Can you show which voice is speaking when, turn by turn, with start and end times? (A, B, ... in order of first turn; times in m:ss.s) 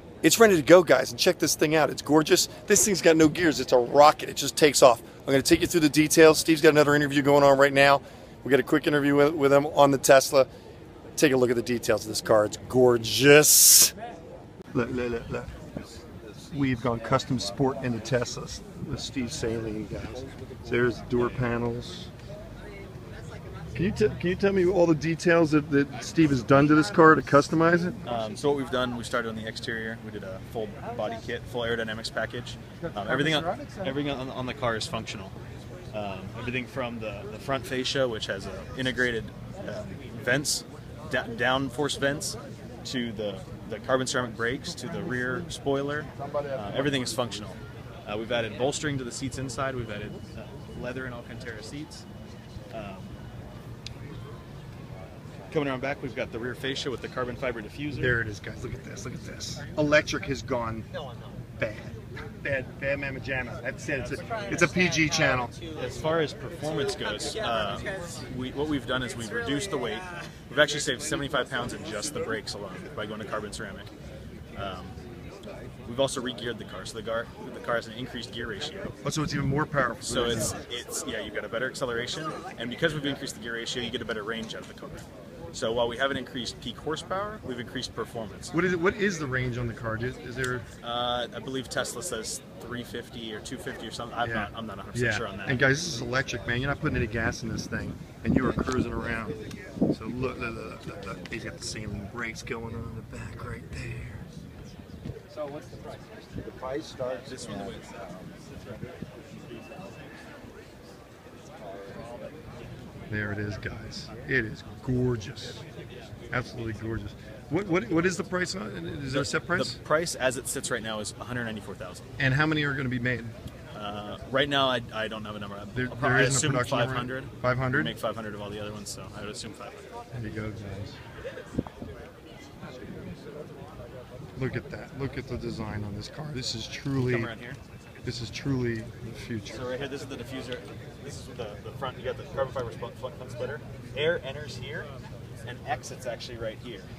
0:00.2-0:10.5 A
0:11.2-0:13.9 A
0:14.7-0:15.5 A
0:16.5-0:22.1 A
0:23.7-0:28.0 A
0:28.0-0:35.4 B
0:35.9-0:52.0 B
0:46.2-0:47.2 A
0:52.7-0:53.1 B
0:55.5-0:58.2 B
0:57.9-1:00.8 A
1:01.6-1:05.5 A
1:05.7-1:13.9 B
1:14.5-1:15.0 B
1:15.8-1:18.9 B
1:19.0-1:20.5 A
1:20.0-1:28.5 B
1:28.5-1:30.6 A
1:30.8-1:35.6 B
1:34.2-1:39.4 A
1:39.9-1:44.2 A
1:41.1-1:41.4 C
1:45.3-1:48.9 C
1:47.1-1:47.9 B
1:49.5-1:49.9 C
1:51.6-1:52.3 C
1:53.1-1:55.6 A
1:56.3-1:59.8 A
1:59.1-2:02.1 B
2:02.2-2:03.3 A
2:03.7-2:09.8 B
2:05.7-2:07.9 A
2:10.1-2:11.0 A
2:12.6-2:13.2 C
2:14.4-2:17.3 A
2:17.0-2:17.6 B
2:18.0-2:19.6 A
2:19.5-2:24.9 B
2:25.4-2:26.9 B